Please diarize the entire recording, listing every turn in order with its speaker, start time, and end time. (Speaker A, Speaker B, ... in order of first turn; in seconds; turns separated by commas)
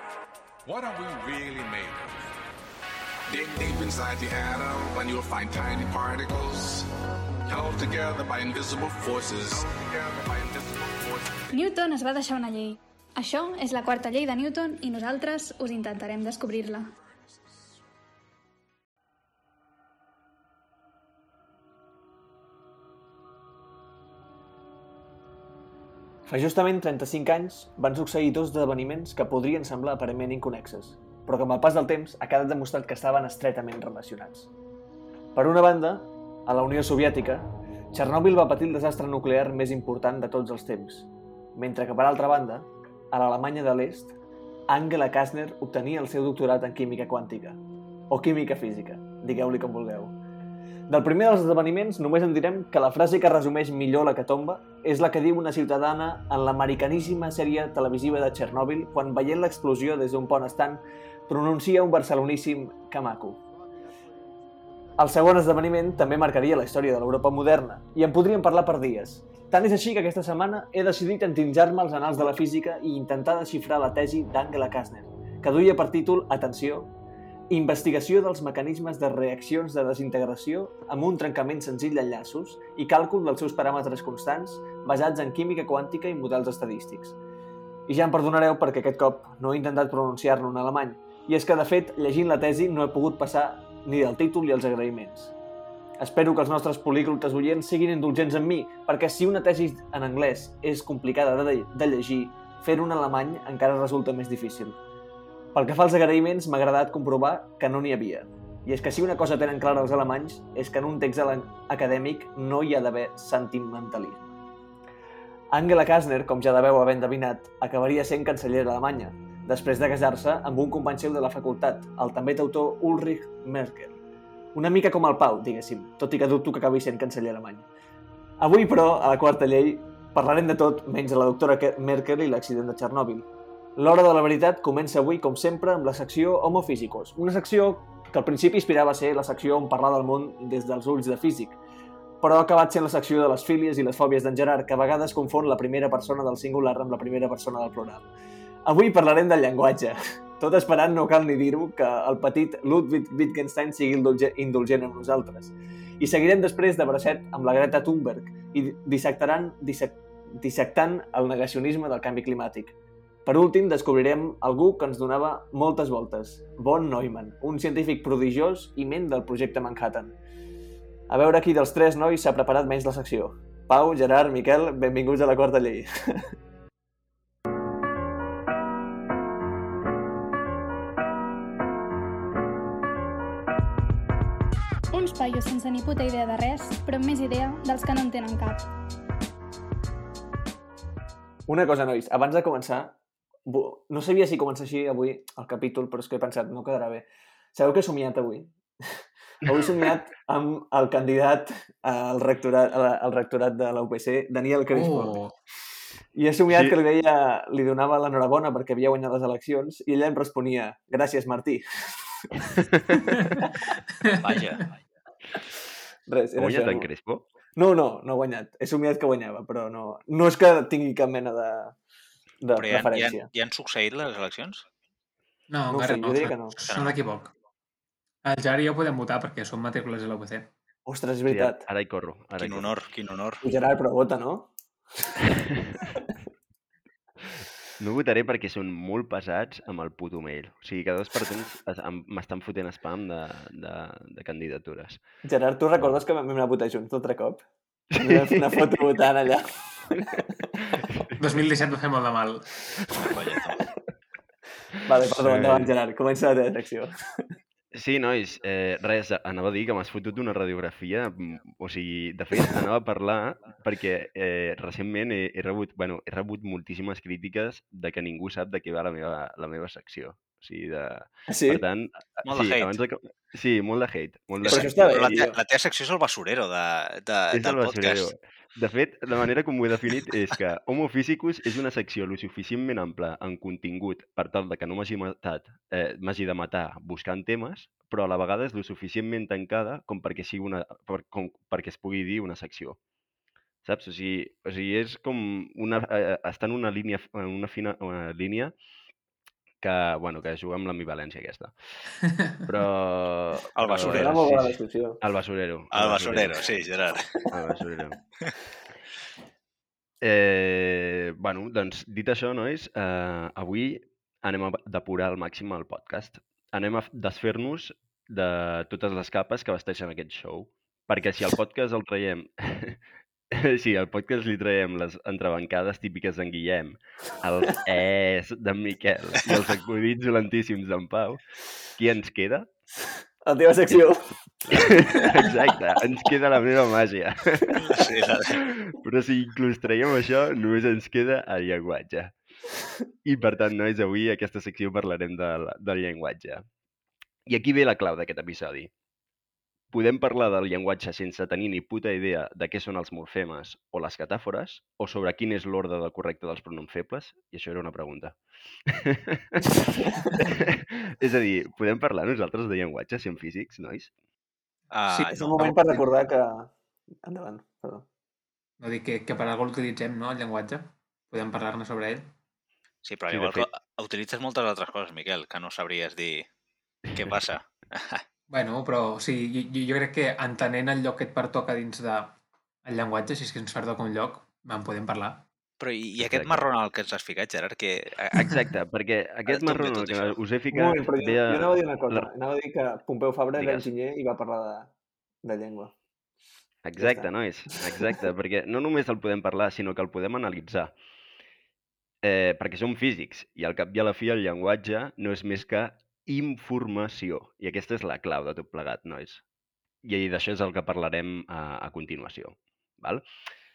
Speaker A: 0.6-2.2, Speaker A: 3.3-6.9, Speaker A: 7.5-11.5, Speaker B: 11.5-16.9, Speaker C: 26.3-34.5, Speaker C: 35.3-44.1, Speaker C: 44.7-50.2, Speaker C: 50.9-63.4, Speaker C: 65.0-76.9, Speaker C: 77.5-87.2, Speaker C: 87.9-95.3, Speaker C: 96.0-104.8, Speaker C: 105.5-114.3, Speaker C: 115.5-124.0, Speaker C: 124.5-127.7, Speaker C: 128.4-141.6, Speaker C: 142.2-148.1, Speaker C: 148.7-170.2, Speaker C: 171.1-176.2, Speaker B: 184.9-188.7, Speaker C: 191.5-198.9, Speaker C: 199.4-205.2, Speaker D: 204.7-205.3, Speaker C: 206.2-213.5, Speaker E: 206.5-206.8, Speaker D: 213.1-213.4, Speaker F: 214.2-214.7, Speaker C: 216.1-216.9, Speaker E: 216.4-217.3, Speaker C: 217.6-221.8, Speaker C: 222.4-223.3, Speaker F: 222.6-224.6, Speaker D: 225.5-227.3, Speaker C: 225.7-226.6, Speaker F: 226.7-227.0, Speaker D: 228.2-230.5, Speaker C: 230.8-231.7, Speaker E: 231.3-232.7, Speaker F: 232.4-233.4, Speaker C: 233.4-235.3, Speaker E: 235.6-235.8, Speaker E: 237.8-245.0, Speaker C: 245.3-247.4, Speaker E: 247.9-248.8, Speaker C: 248.0-250.5, Speaker E: 250.7-251.2, Speaker D: 251.2-252.5, Speaker F: 253.0-253.6, Speaker C: 254.8-257.2, Speaker E: 254.9-255.7, Speaker E: 257.7-275.1, Speaker C: 271.3-271.6, Speaker F: 272.2-272.7, Speaker F: 274.4-278.1, Speaker C: 274.5-275.3, Speaker E: 277.3-292.8, Speaker E: 293.6-298.5, Speaker E: 299.6-301.5, Speaker E: 302.4-306.4, Speaker F: 303.6-304.4, Speaker C: 303.8-305.0, Speaker F: 305.7-307.1, Speaker E: 307.3-308.0, Speaker E: 310.0-331.2, Speaker E: 331.7-332.5, Speaker C: 333.2-335.4, Speaker E: 334.5-337.6, Speaker F: 337.6-338.4, Speaker E: 338.3-342.1, Speaker E: 343.0-346.4, Speaker E: 347.3-348.7, Speaker E: 349.7-359.5, Speaker C: 359.8-360.3, Speaker E: 360.2-363.9, Speaker F: 364.7-365.6, Speaker C: 364.9-367.9, Speaker D: 368.6-372.1, Speaker F: 372.8-376.2, Speaker E: 373.1-373.5, Speaker F: 376.9-378.0, Speaker D: 378.3-385.2, Speaker F: 385.6-388.4, Speaker E: 386.0-386.4, Speaker E: 388.2-392.1, Speaker F: 389.2-390.2, Speaker C: 390.5-394.7, Speaker E: 393.3-393.7, Speaker C: 395.2-395.7, Speaker E: 396.6-400.7, Speaker C: 396.8-397.1, Speaker C: 397.6-397.9, Speaker E: 402.0-409.2, Speaker E: 409.8-413.0